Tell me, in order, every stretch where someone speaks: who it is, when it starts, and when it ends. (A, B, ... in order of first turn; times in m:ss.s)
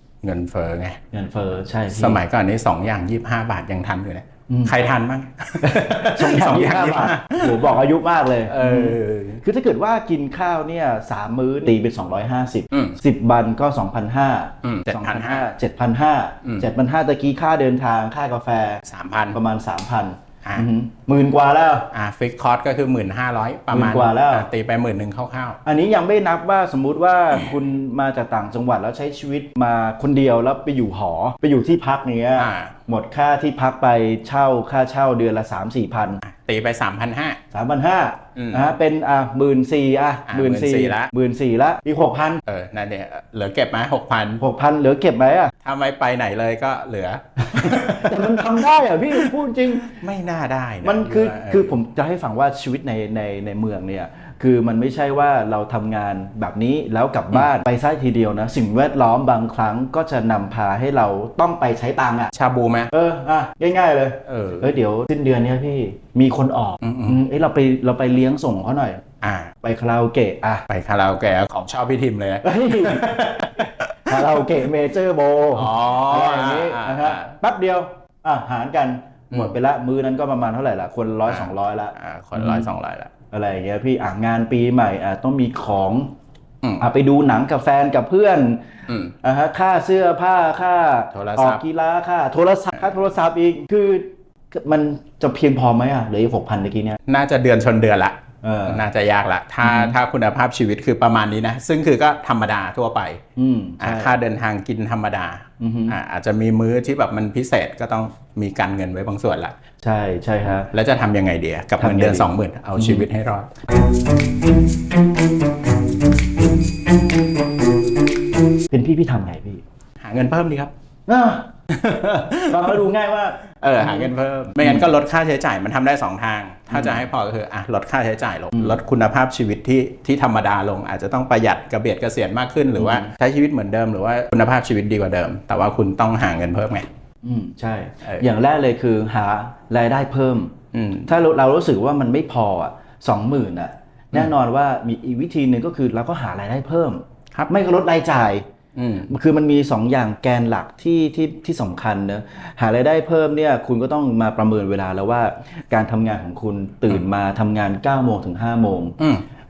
0:00.2-0:01.0 A
0:01.1-0:02.2 B
0:01.9-0:07.8 A
0:04.5-0:04.7 B
0:05.6-0:21.9 B
0:08.4-0:09.4 A
0:12.7-0:13.0 A
0:14.6-0:15.5 A
0:18.8-0:19.4 A
0:21.9-0:25.6 A
0:23.7-0:24.5 B
0:25.6-0:36.2 B
0:32.4-0:32.7 A
0:36.2-0:37.4 A
0:37.5-0:42.4 B
0:38.4-0:38.7 A
0:40.3-0:41.1 A
0:42.4-0:44.4 A
0:44.4-0:45.5 B
0:45.6-0:51.8 A
0:47.6-0:49.9 B
0:50.8-1:02.3 B
1:02.3-1:02.9 A
1:02.9-1:09.0 B
1:04.2-1:04.8 A
1:06.8-1:07.2 A
1:09.2-1:09.5 A
1:09.6-1:10.7 B
1:10.7-1:14.5 A
1:12.4-1:22.7 B
1:15.5-1:17.3 A
1:21.3-1:23.1 A
1:23.3-1:26.1 B
1:26.8-1:28.7 B
1:28.9-1:29.1 A
1:29.2-1:37.0 B
1:31.1-1:31.6 A
1:37.1-1:38.2 A
1:38.4-1:38.8 B
1:38.7-1:43.2 A
1:39.6-1:40.0 B
1:43.4-1:44.1 B
1:43.8-1:49.5 A
1:45.6-1:45.9 B
1:49.8-1:50.7 B
1:50.7-1:53.5 A
1:51.8-1:53.1 B
1:58.7-1:59.6 B
2:00.0-2:00.7 A
2:01.1-2:01.5 B
2:01.7-2:02.8 A
2:02.5-2:04.9 B
2:03.6-2:16.9 A
2:06.7-2:07.0 B
2:12.8-2:13.1 B
2:17.2-2:20.5 B
2:20.7-2:21.1 A
2:21.1-2:28.4 B
2:28.8-2:29.1 A
2:29.1-2:39.0 B